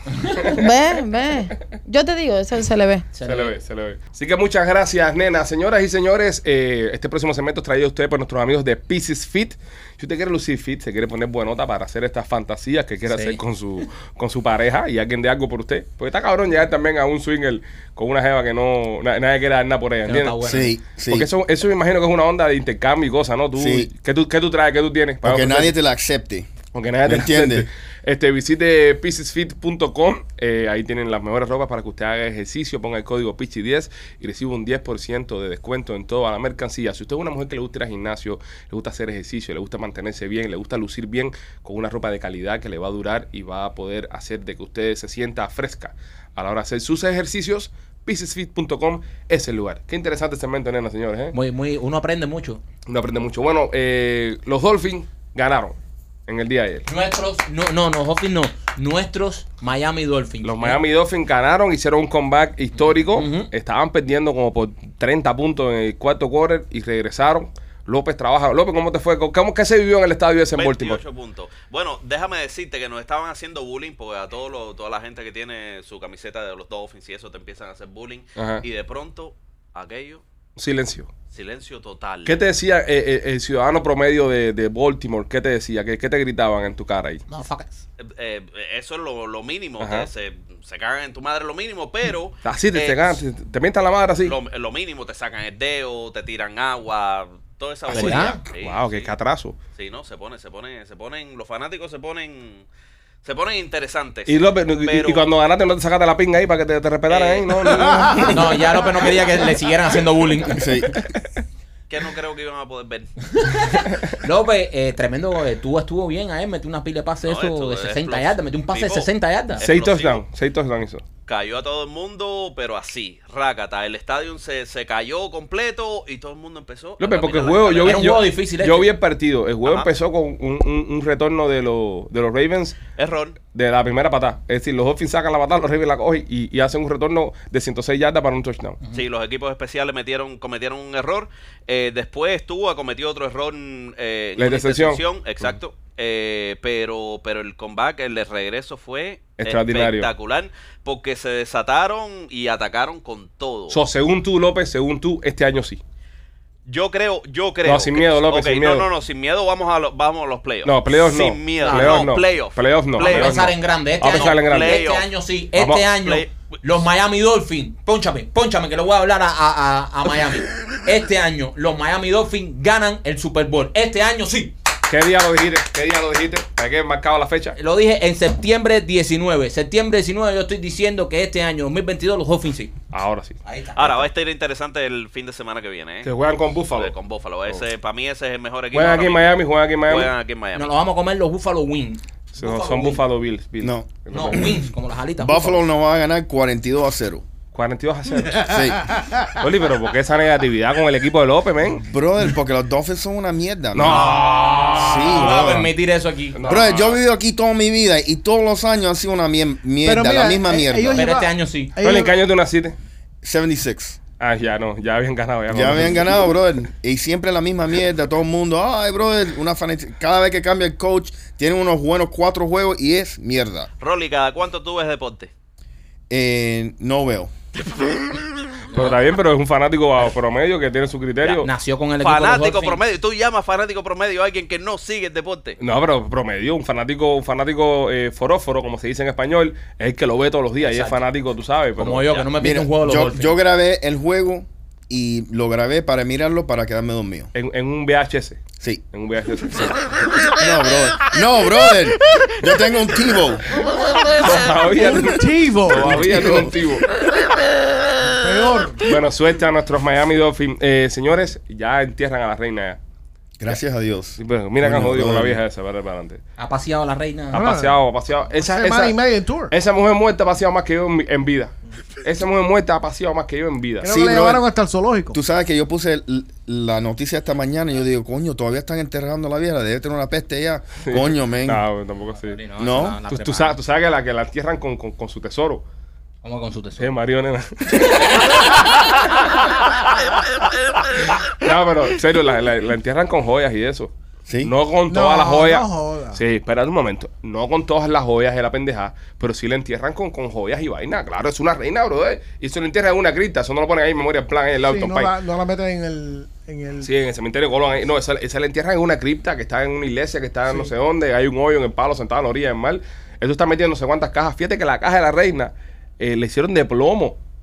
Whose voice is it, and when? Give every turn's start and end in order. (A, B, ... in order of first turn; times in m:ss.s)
0:00.4-0:00.6 A
0:00.5-0:03.0 B
0:03.1-0:03.5 C
0:03.2-0:20.4 A
0:13.1-0:13.4 C
0:20.0-0:20.7 C
0:20.4-0:21.3 D
0:21.1-0:25.7 A
0:23.6-0:23.9 D
0:25.2-0:26.5 D
0:26.7-0:51.3 A
0:27.0-0:27.7 D
0:51.3-0:52.6 C
0:52.8-0:56.8 A
0:56.9-1:00.8 C
1:00.4-1:11.0 A
1:03.1-1:03.5 C
1:10.5-1:20.2 E
1:18.4-1:18.6 A
1:20.6-1:21.1 A
1:21.3-1:22.4 E
1:22.2-1:27.2 A
1:27.3-1:27.8 C
1:28.0-1:33.2 E
1:29.8-1:30.1 A
1:32.4-1:34.4 A
1:34.2-1:39.1 E
1:37.9-1:38.4 C
1:37.9-1:39.6 A
1:39.8-1:42.6 E
1:43.2-1:45.3 E
1:44.3-1:48.5 A
1:47.1-1:47.9 E
1:47.7-1:48.4 F
1:48.2-1:50.7 C
1:50.6-1:51.0 D
1:51.9-1:53.1 E
1:53.3-1:59.6 C
1:57.2-2:00.2 E
1:59.6-2:01.0 A
2:01.2-2:08.2 E
2:07.0-2:12.8 A
2:07.8-2:08.9 C
2:09.6-2:09.9 E
2:13.0-2:13.4 E
2:13.5-2:18.8 A
2:18.9-2:33.8 E
2:24.4-2:25.5 A
2:29.4-2:30.1 A
2:33.7-2:35.8 A
2:36.7-2:43.5 E
2:37.6-2:38.9 A
2:40.6-2:44.8 A
2:41.6-2:42.1 C
2:43.0-2:54.5 C
2:44.1-2:45.1 E
2:45.5-2:45.9 A
2:46.0-2:46.3 E
2:54.9-2:57.6 A
2:57.6-3:02.7 C
3:02.9-3:03.4 A
3:03.4-3:04.1 C
3:03.8-3:06.1 E
3:06.0-3:06.9 A
3:06.7-3:10.7 E
3:08.7-3:10.1 A
3:10.6-3:13.0 C
3:12.4-3:14.6 A
3:13.6-3:14.5 D
3:14.1-3:15.6 C
3:15.2-3:17.2 D
3:17.5-3:18.6 A
3:18.5-3:18.8 D
3:19.4-3:21.8 A
3:21.8-3:24.2 D
3:23.7-3:25.5 A
3:23.8-3:26.6 C
3:24.8-3:25.7 D
3:26.3-3:27.0 A
3:26.4-3:31.1 D
3:29.8-3:32.2 F
3:30.9-3:31.7 C
3:31.8-3:32.8 A
3:33.2-3:34.0 D
3:34.2-3:36.3 A
3:35.5-3:43.7 D
3:43.8-3:45.3 E
3:46.1-3:47.3 D
3:48.7-3:51.5 A
3:51.2-3:52.8 C
3:52.0-3:55.6 E
3:55.6-4:02.2 A
4:00.6-4:01.1 C
4:01.8-4:03.3 C
4:02.4-4:07.3 D
4:07.3-4:10.3 A
4:10.4-4:13.4 D
4:14.1-4:16.9 A
4:14.7-4:16.5 F
4:15.9-4:16.5 D
4:18.0-4:18.9 F
4:18.8-4:22.8 A
4:23.4-4:25.4 D
4:24.2-4:26.2 A
4:26.4-4:27.4 C
4:27.3-4:29.0 A
4:27.3-4:29.5 F
4:29.5-4:33.9 A
4:33.8-4:35.2 F
4:33.9-4:34.4 D
4:35.1-4:41.6 D
4:40.9-4:42.4 A
4:42.1-4:43.6 C
4:42.6-4:43.0 D
4:43.1-4:45.6 A
4:46.2-4:46.9 C
4:46.8-4:49.4 A
4:51.0-4:53.9 A
4:54.2-4:54.5 D
4:54.4-5:05.1 A
4:54.9-4:56.2 F
5:04.6-5:06.9 F
5:06.8-5:17.2 A